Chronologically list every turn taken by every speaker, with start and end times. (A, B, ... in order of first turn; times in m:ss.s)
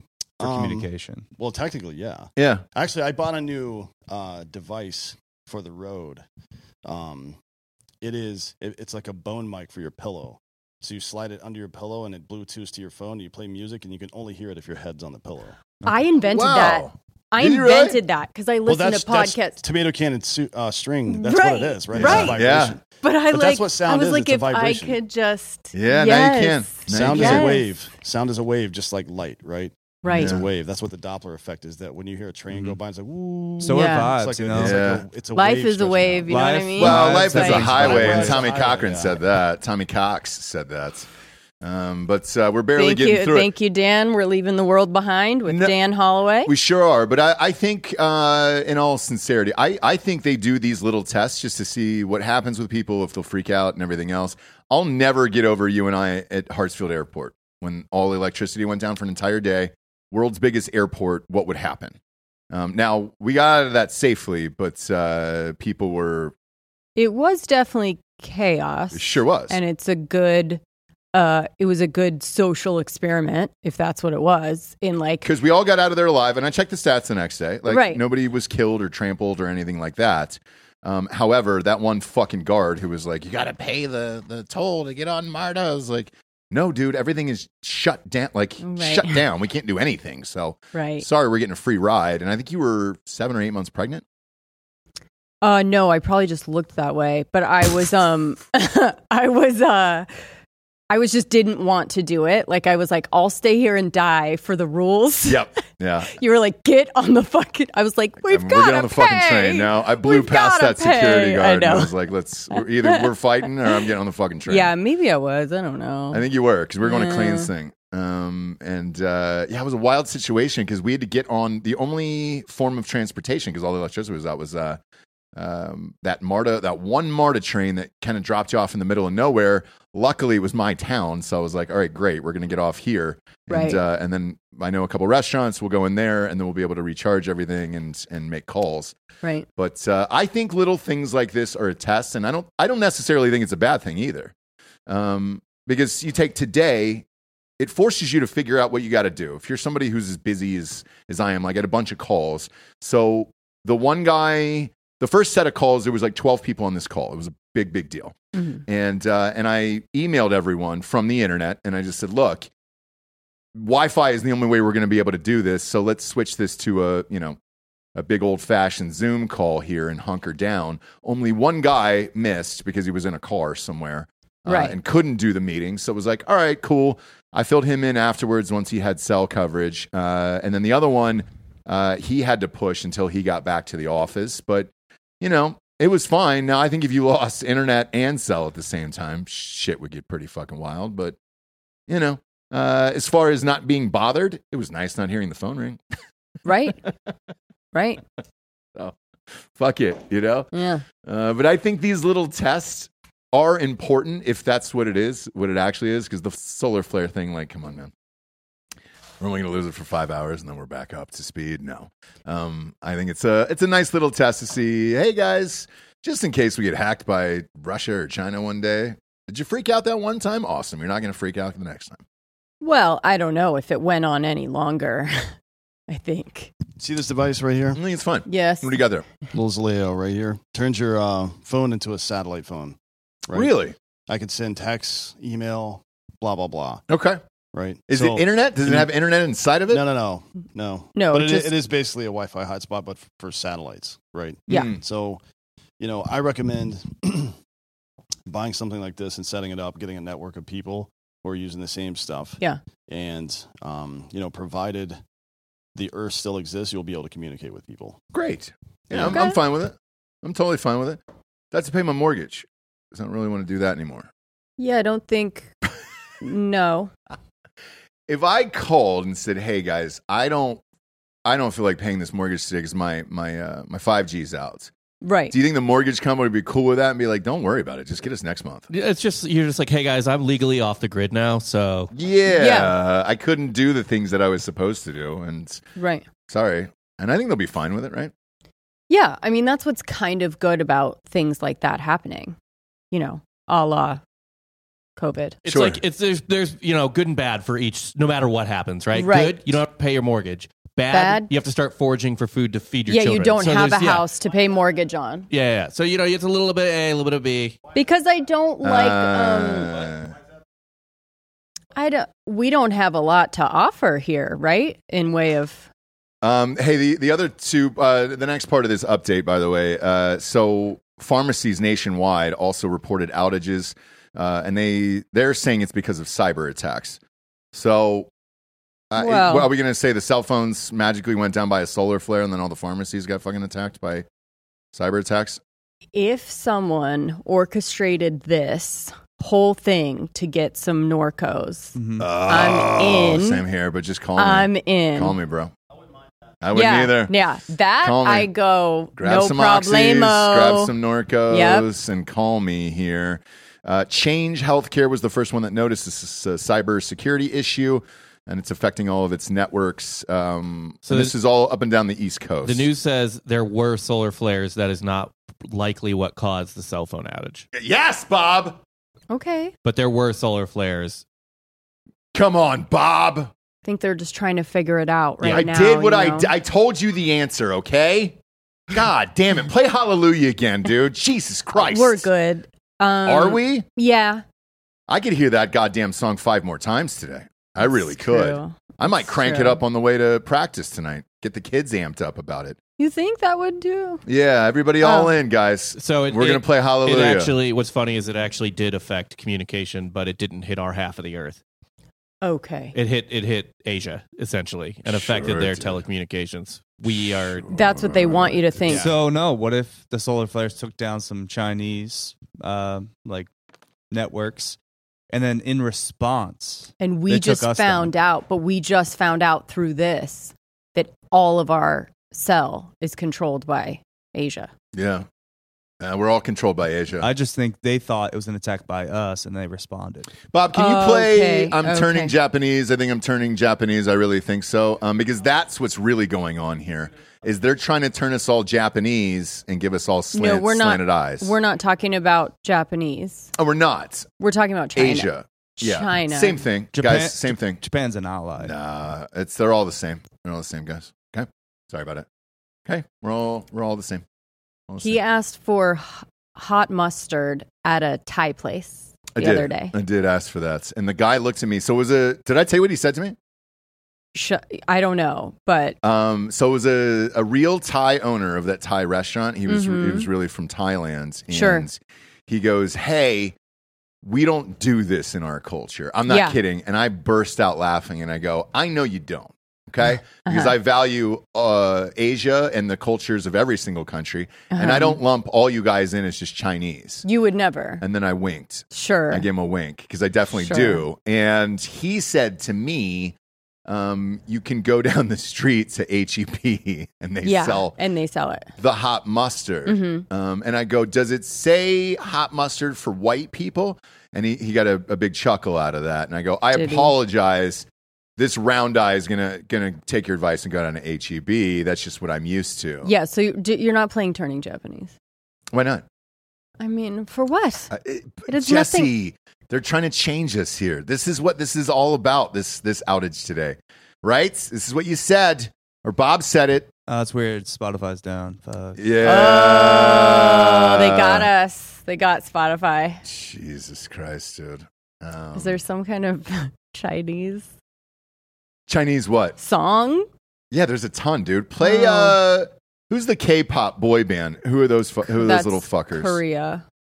0:00.4-0:06.2 A
0:00.4-0:01.3 B
0:02.4-0:02.6 C
0:06.8-0:07.4 A
0:08.0-0:15.6 A
0:15.8-0:19.6 D
0:16.2-0:18.0 C
0:18.6-0:25.0 A
0:21.1-0:22.4 D
0:21.9-0:22.8 C
0:23.0-0:27.7 D
0:25.7-0:27.6 C
0:26.9-0:39.2 A
0:30.0-0:30.4 D
0:30.2-0:30.5 C
0:33.6-0:34.9 B
0:33.7-0:34.1 D
0:34.5-0:35.0 C
0:35.3-0:37.9 D
0:36.3-0:38.4 B
0:36.8-0:41.1 C
0:41.6-0:43.5 C
0:42.8-0:46.5 D
0:45.5-0:45.8 C
0:46.4-1:02.0 C
1:02.5-1:06.3 C
1:07.0-1:10.6 D
1:08.9-1:09.6 C
1:11.1-1:15.3 D
1:15.2-1:34.0 C
1:17.7-1:18.0 D
1:28.6-1:29.2 D
1:30.7-1:31.0 D
1:35.4-1:40.1 D
1:40.9-1:45.4 D
1:45.2-1:46.2 C
1:46.1-1:51.9 D
1:48.2-1:54.7 C
1:52.5-1:53.1 D
1:54.5-1:56.2 D
1:56.1-2:04.8 C
1:56.8-1:57.5 D
2:05.3-2:18.9 C
2:13.5-2:13.8 D
2:19.6-2:24.3 C
2:24.9-2:27.0 C
2:27.6-2:38.1 C
2:38.3-2:38.6 D
2:38.6-2:42.5 C
2:43.5-2:47.4 C
2:47.9-3:04.7 C
2:54.5-2:54.8 D
3:05.2-3:11.2 C
3:11.9-3:15.8 C
3:16.4-3:16.8 D
3:17.7-3:18.0 D
3:19.5-3:20.5 C
3:20.5-3:20.8 D
3:21.0-3:27.9 C
3:29.2-3:42.0 C
3:42.6-3:45.3 D
3:45.9-3:46.5 D
3:46.8-3:47.8 A
3:47.7-3:49.0 C
3:48.3-3:48.8 D
3:49.3-3:52.8 A
3:53.3-3:53.7 C
3:54.1-3:56.8 A
3:56.9-3:57.2 C
3:57.5-3:58.9 A
3:57.9-3:59.8 C
3:59.7-4:05.2 A
4:00.9-4:01.5 D
4:04.5-4:04.8 C
4:05.8-4:07.3 A
4:08.2-4:15.0 A
4:15.7-4:18.0 A
4:18.1-4:21.0 C
4:18.9-4:19.4 D
4:21.5-4:24.1 C
4:24.6-4:25.5 D
4:26.2-4:26.9 D
4:28.1-4:30.6 C
4:31.2-4:34.7 C
4:35.0-4:35.3 D
4:35.3-4:38.7 C
4:38.7-4:41.9 E
4:41.9-4:45.6 C
4:42.3-4:42.7 D
4:45.8-4:46.0 D
4:46.3-4:48.1 C
4:48.9-4:52.4 D
4:52.9-4:54.0 D
4:55.0-4:55.4 D
4:55.4-5:04.0 E
4:55.5-4:55.8 C
4:58.9-4:59.4 D
5:00.9-5:01.3 D
5:02.9-5:05.3 D
5:05.3-5:07.6 E
5:07.7-5:09.8 D
5:08.6-5:10.1 C
5:11.7-5:15.7 D
5:16.2-5:27.0 C
5:27.5-5:28.1 C
5:28.9-5:34.0 C
5:29.0-5:29.5 D
5:34.7-5:35.4 C
5:35.9-5:43.4 D
5:41.8-5:42.1 B
5:42.0-5:45.5 C
5:44.2-5:45.2 D
5:46.4-5:47.1 C
5:46.5-5:50.7 D
5:47.8-5:48.3 C
5:48.9-6:02.7 C
5:51.3-5:51.7 D
6:00.8-6:01.1 E
6:02.4-6:07.4 E
6:07.5-6:08.6 C
6:09.1-6:09.5 D
6:09.6-6:11.0 E
6:12.1-6:13.3 C
6:13.6-6:16.3 D
6:15.2-6:18.2 C
6:18.7-6:22.1 C
6:21.5-6:24.2 D
6:23.0-6:23.6 C
6:24.9-6:32.6 C
6:27.6-6:29.6 D
6:32.8-6:34.0 D
6:34.0-6:37.3 C
6:34.8-6:35.1 D
6:35.8-6:41.4 E
6:42.2-6:42.7 D
6:42.7-6:47.5 E
6:44.8-6:45.8 C
6:47.3-6:48.8 C
6:47.5-6:48.9 D
6:48.7-6:53.3 B
6:53.9-6:54.6 B
6:55.1-6:57.9 B
6:56.8-7:04.5 D
7:04.7-7:05.0 C
7:05.8-7:07.1 C
7:07.0-7:10.1 B
7:10.3-7:21.3 C
7:10.5-7:12.1 D
7:20.1-7:23.3 D
7:23.4-7:24.1 C
7:24.2-7:26.4 D
7:24.8-7:27.6 C
7:26.7-7:28.5 B
7:28.4-7:32.0 C
7:32.6-7:34.0 C
7:34.7-7:35.0 C
7:34.8-7:39.7 D
7:39.1-7:43.2 C
7:44.1-7:45.8 D
7:45.8-7:53.4 C
7:49.5-7:50.1 D
7:51.3-7:51.6 D
7:54.0-8:07.0 C
7:56.1-7:56.4 D
8:00.2-8:00.6 D
8:04.5-8:05.0 D
8:07.0-8:07.8 D
8:07.8-8:13.1 C
8:08.7-8:09.3 D
8:10.4-8:10.8 D
8:13.6-8:17.8 C
8:17.2-8:18.5 D
8:18.6-8:32.9 C
8:19.6-8:20.0 D
8:26.5-8:26.9 D
8:32.8-8:34.9 D
8:35.5-8:35.8 C
8:36.6-8:37.7 D
8:37.7-8:46.7 C
8:38.3-8:38.9 D
8:46.9-8:48.8 B
8:48.8-8:51.3 C
8:49.0-8:53.0 D
8:53.0-8:55.6 C
8:55.4-8:57.5 D
8:58.7-8:59.4 C
8:59.4-9:00.1 D
9:00.5-9:06.2 C
9:01.6-9:02.2 D
9:05.1-9:06.6 D